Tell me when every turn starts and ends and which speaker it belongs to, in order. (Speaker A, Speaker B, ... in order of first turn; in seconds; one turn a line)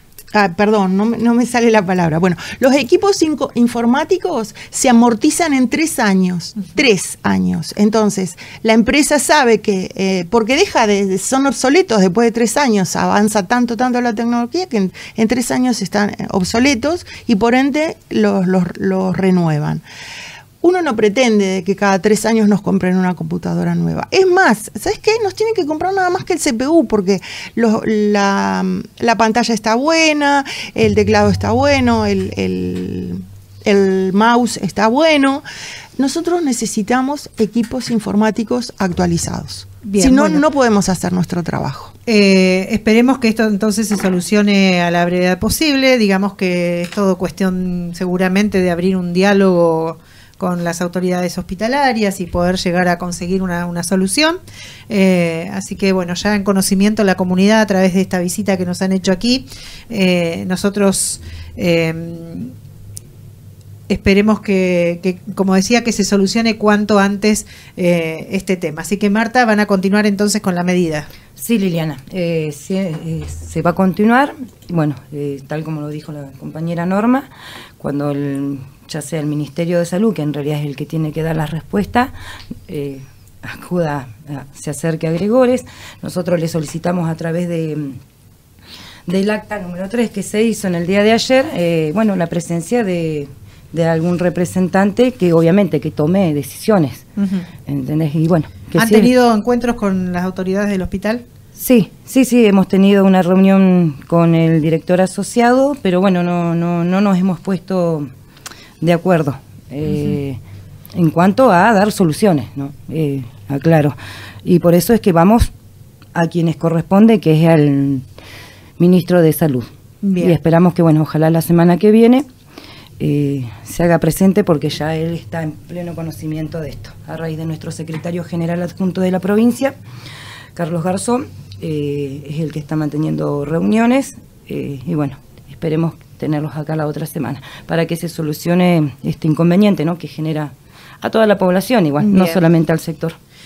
Speaker A: 0.3-19.8
Speaker A: 20.6-35.4
Speaker A: 36.0-41.9
Speaker B: 39.8-40.4
Speaker B: 42.1-62.5
Speaker B: 63.9-71.1
Speaker C: 71.4-82.1
Speaker C: 82.7-88.0
Speaker C: 89.1-97.0
Speaker B: 97.2-97.5
Speaker C: 97.7-99.1
Speaker B: 98.8-101.2
Speaker C: 101.6-108.1
Speaker C: 108.8-110.4
Speaker C: 111.0-115.5
Speaker C: 116.2-118.0
Speaker C: 118.8-122.3
Speaker B: 120.0-120.4
Speaker C: 123.0-129.8
Speaker C: 130.6-143.2
Speaker B: 142.0-142.4